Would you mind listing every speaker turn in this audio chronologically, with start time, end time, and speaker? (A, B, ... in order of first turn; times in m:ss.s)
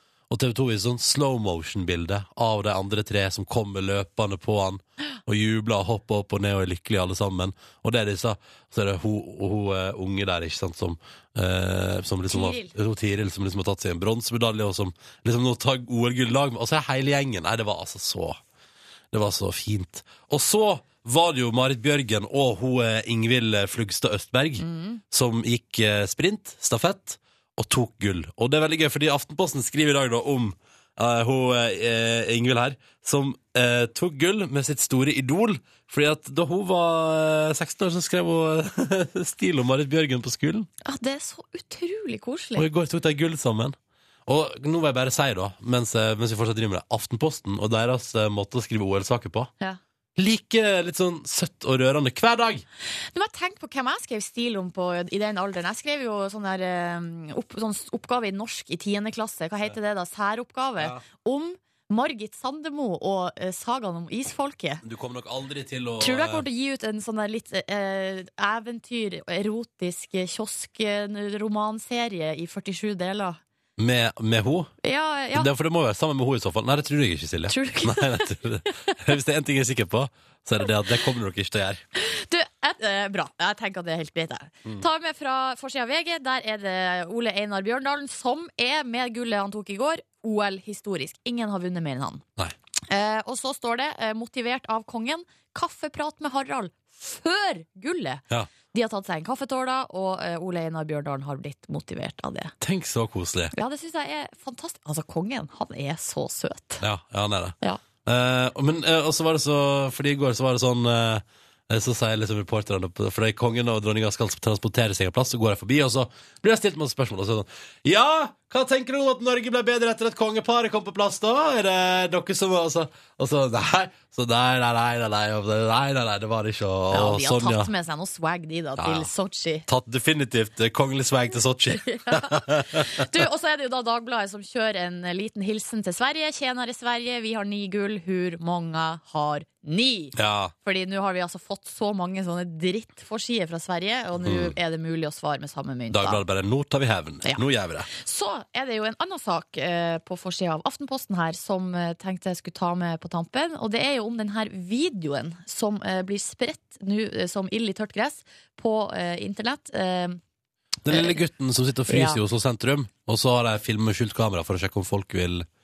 0:00.3-0:18.4 A
0:12.3-0:12.7 B
0:19.1-0:40.7 A
0:24.6-0:25.0 B
0:40.8-0:42.7 B
0:42.6-0:43.7 A
0:44.3-0:49.5 A
0:50.2-0:52.6 A
0:53.1-1:04.8 B
1:04.8-1:06.4 A
1:06.0-1:13.4 B
1:13.8-1:14.7 A
1:14.8-1:15.5 B
1:15.3-1:21.8 A
1:17.5-1:18.2 B
1:22.0-1:32.2 B
1:32.9-1:42.5 B
1:42.6-1:43.5 A
1:43.5-1:46.8 B
1:46.8-2:07.7 A
2:06.9-2:09.6 B
2:08.8-2:09.1 A
2:09.7-2:13.0 A
2:11.8-2:26.2 B
2:20.2-2:20.5 A
2:24.2-2:24.5 A
2:25.9-2:27.9 A
2:27.2-2:40.2 B
2:40.8-2:45.4 A
2:40.9-2:41.2 B
2:41.9-2:42.2 B